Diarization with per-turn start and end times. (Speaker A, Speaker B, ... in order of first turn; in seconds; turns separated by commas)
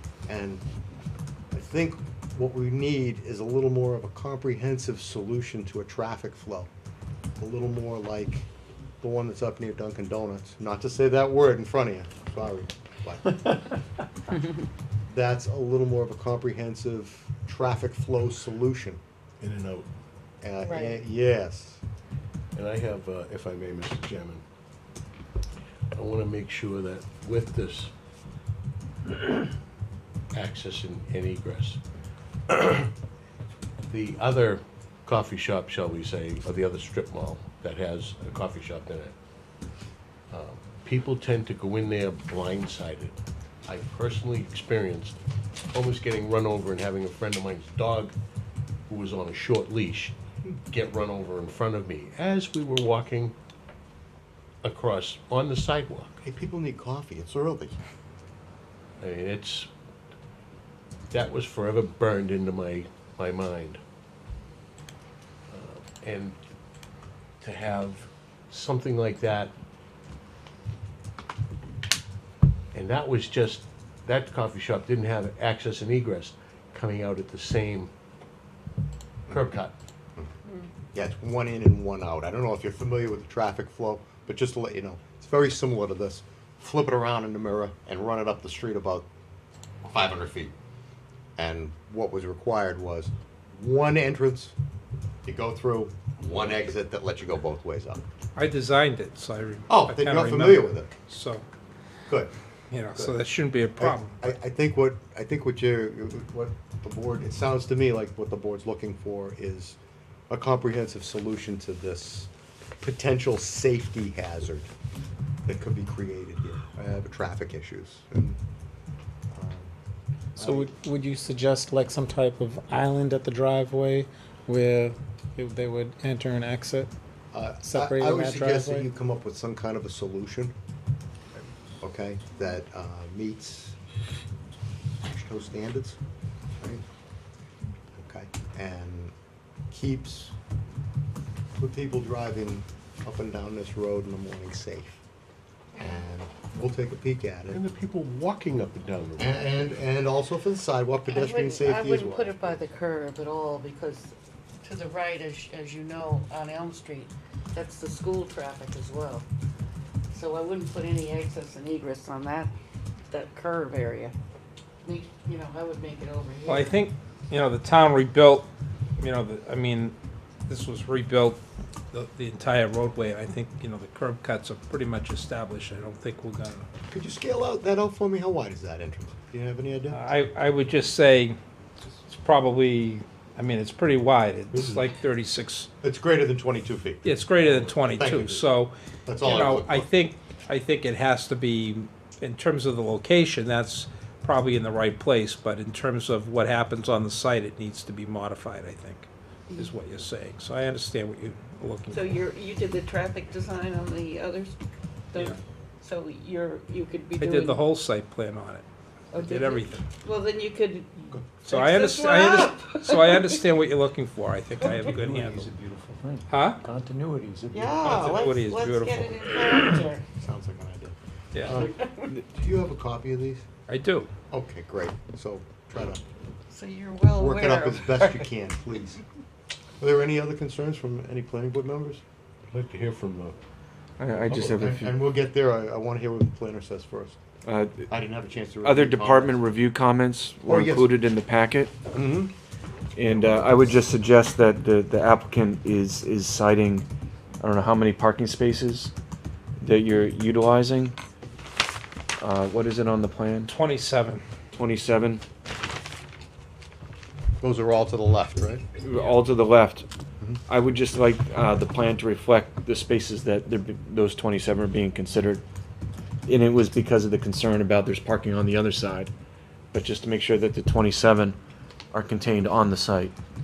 Speaker A: 0.3-0.6, Speaker A: 1.5-6.7, Speaker A: 7.4-8.5, Speaker A: 9.0-13.5, Speaker A: 15.1-19.0, Speaker B: 19.4-19.9, Speaker A: 20.4-21.8, Speaker C: 20.6-21.0, Speaker B: 22.5-24.4, Speaker B: 25.9-27.9, Speaker B: 30.3-31.8, Speaker B: 32.5-32.9, Speaker B: 33.9-39.1, Speaker B: 40.3-45.1, Speaker B: 45.7-48.1, Speaker B: 48.9-50.2, Speaker B: 50.7-53.4, Speaker B: 54.6-56.2, Speaker A: 56.2-57.8, Speaker B: 59.0-59.7, Speaker B: 61.1-63.8, Speaker B: 65.5-66.4, Speaker B: 67.4-69.5, Speaker B: 72.7-77.9, Speaker B: 79.3-79.7, Speaker A: 80.9-89.1, Speaker A: 89.8-90.5, Speaker A: 91.4-94.6, Speaker A: 95.3-98.0, Speaker D: 98.4-101.4, Speaker A: 99.7-100.9, Speaker D: 102.7-104.3, Speaker A: 103.8-109.8, Speaker A: 110.3-114.7, Speaker A: 115.5-118.4, Speaker A: 119.3-119.7, Speaker A: 120.4-120.7, Speaker E: 120.4-126.9, Speaker A: 127.3-130.6, Speaker E: 127.6-128.9, Speaker A: 131.8-133.8, Speaker A: 135.0-136.0, Speaker A: 136.6-136.8, Speaker A: 137.9-139.1, Speaker A: 139.7-140.3, Speaker A: 141.6-145.0, Speaker A: 145.8-147.6, Speaker B: 147.5-149.4, Speaker A: 149.2-152.6, Speaker C: 151.1-159.3, Speaker C: 160.1-162.5, Speaker C: 163.1-164.2, Speaker C: 164.8-166.8, Speaker D: 166.5-168.5, Speaker D: 169.0-169.9, Speaker D: 170.5-171.4, Speaker D: 171.9-176.7, Speaker A: 176.9-180.0, Speaker D: 179.9-181.4, Speaker D: 182.1-185.7, Speaker A: 185.8-188.5, Speaker D: 187.0-202.2, Speaker A: 189.1-189.9, Speaker C: 201.9-204.6, Speaker C: 205.1-207.6, Speaker D: 207.2-209.8, Speaker C: 209.1-213.3, Speaker D: 211.5-215.5, Speaker F: 215.1-216.1, Speaker G: 215.2-217.7, Speaker D: 216.3-216.6, Speaker F: 216.6-217.6, Speaker C: 217.5-220.0, Speaker D: 217.8-219.3, Speaker A: 220.2-223.5, Speaker D: 221.3-221.6, Speaker C: 221.6-222.1, Speaker D: 223.7-224.1, Speaker A: 224.3-226.0, Speaker C: 226.5-228.3, Speaker A: 227.2-229.0, Speaker A: 229.8-232.0, Speaker B: 232.5-233.4, Speaker F: 234.0-234.9, Speaker A: 234.3-237.2, Speaker F: 237.4-237.9, Speaker A: 237.9-239.4, Speaker F: 238.6-241.7, Speaker A: 240.4-240.9, Speaker A: 241.9-242.3, Speaker F: 242.9-246.9, Speaker F: 247.4-248.9, Speaker F: 249.6-251.0, Speaker F: 252.2-253.5, Speaker D: 253.5-254.2, Speaker F: 254.5-255.2, Speaker A: 257.4-258.6, Speaker F: 258.8-259.9, Speaker F: 260.5-265.4, Speaker F: 266.3-269.1, Speaker F: 269.7-271.4, Speaker F: 271.9-273.1